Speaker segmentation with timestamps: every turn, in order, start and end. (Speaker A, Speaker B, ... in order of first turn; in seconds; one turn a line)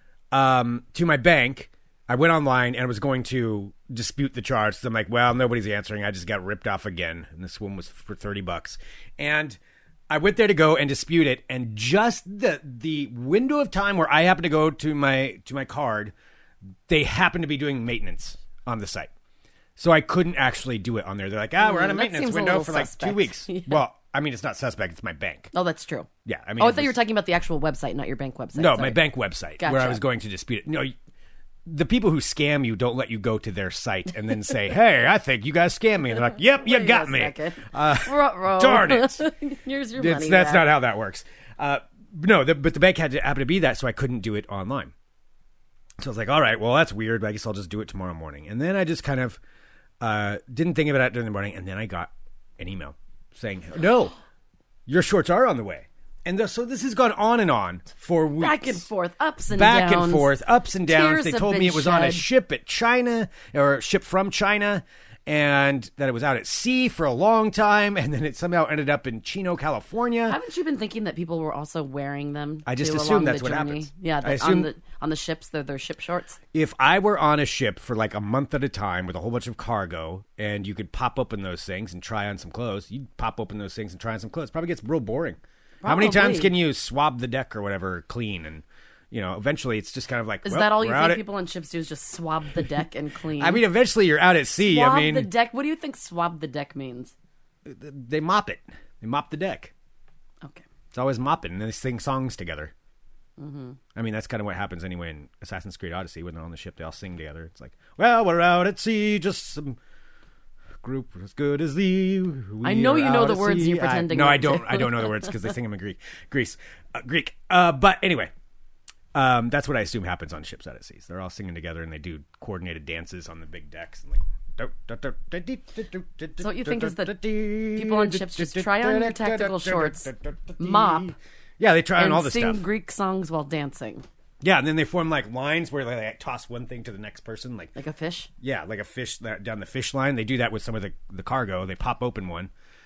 Speaker A: 0.3-9.6
Speaker A: 10.1-16.1
Speaker A: 16.9-19.1
Speaker A: 19.8-25.5
Speaker B: 21.6-23.8
Speaker B: 25.5-29.0
Speaker A: 26.2-27.0
Speaker A: 28.6-30.9
Speaker B: 29.6-30.0
Speaker A: 31.7-39.3
Speaker B: 36.3-40.7
Speaker A: 40.0-44.9
Speaker A: 46.0-49.4
Speaker A: 50.0-54.1
Speaker A: 54.9-58.9
Speaker B: 58.4-60.3
Speaker A: 59.5-70.4
Speaker B: 60.8-62.3
Speaker B: 70.3-76.4
Speaker A: 72.7-74.7
Speaker A: 76.5-91.2
Speaker B: 85.8-86.5
Speaker B: 90.4-93.7
Speaker A: 93.4-95.3
Speaker B: 94.6-97.1
Speaker A: 97.7-99.7
Speaker A: 100.9-102.7
Speaker B: 103.4-103.8
Speaker A: 104.0-109.8
Speaker A: 110.8-118.3
Speaker B: 112.6-115.5
Speaker A: 119.1-132.7
Speaker B: 126.4-127.2
Speaker B: 127.7-131.1
Speaker B: 131.9-134.1
Speaker A: 134.4-137.7
Speaker B: 137.8-138.3
Speaker A: 138.4-142.5